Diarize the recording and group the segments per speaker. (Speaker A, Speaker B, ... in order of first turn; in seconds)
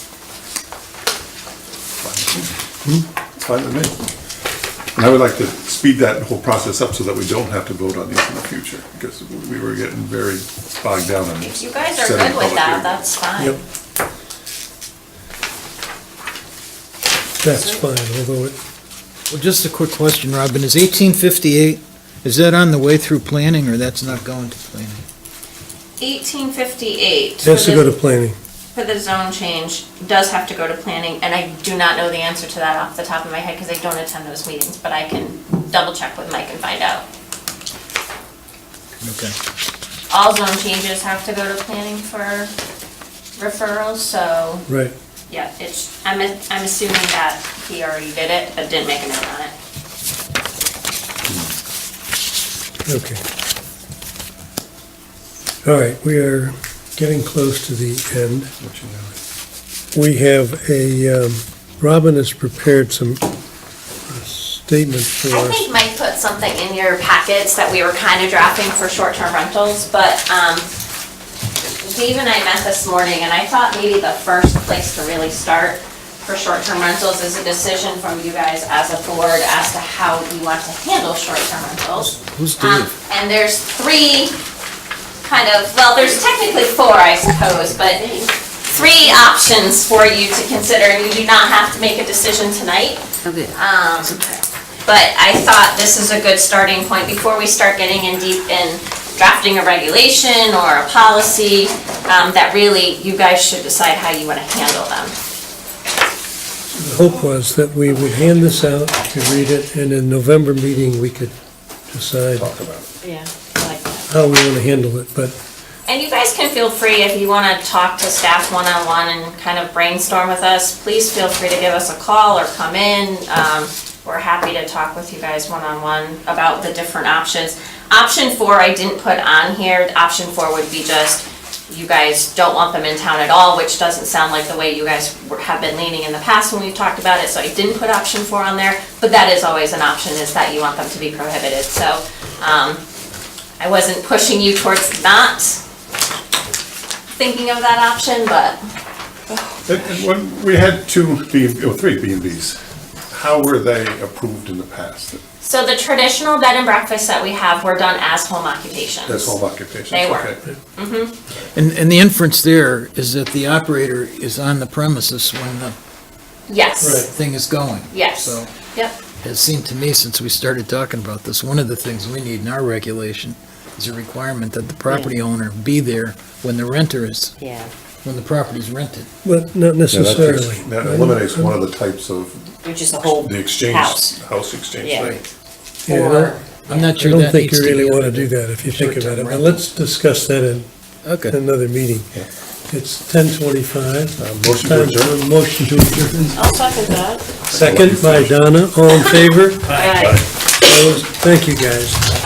Speaker A: 2.0-2.5, 3.3-4.0, 5.0-13.0, 58.6-59.2, 112.4-112.9, 149.6-155.2, 159.1-160.4, 179.9-185.2, 194.2-195.1, 197.5-198.3
Speaker B: 11.4-13.6, 26.0-27.9, 28.7-37.0, 40.1-42.5, 43.4-44.7, 45.3-49.5, 65.3-70.7, 71.8-84.4, 85.2-94.2, 94.9-105.1, 115.9-142.8, 143.6-145.6, 147.1-148.6, 155.4-159.4, 159.9-161.1, 166.5-167.1, 167.9-169.0, 196.3-197.2, 199.8-200.1
Speaker C: 17.4-18.6, 27.4-28.4, 44.7-44.9, 52.9-53.2, 55.6-58.5, 59.9-63.2, 64.1-65.6, 106.7-111.3, 111.9-112.5, 114.1-115.4, 166.8-167.1, 179.2-181.5, 185.8-186.4, 186.9-190.7, 191.2-192.2, 192.7-196.4, 197.5-199.9, 200.5-202.1
Speaker D: 19.3-25.0, 39.0-39.3, 82.0-82.9, 161.5-165.8, 167.1-168.5, 169.2-177.3, 178.0-179.1, 184.9-185.2, 186.7-189.6, 191.0-191.3
Speaker E: 93.2-93.6, 94.1-94.4, 113.0-114.0, 177.4-177.7, 182.6-184.1, 184.8-185.2, 185.9-186.8, 199.7-200.2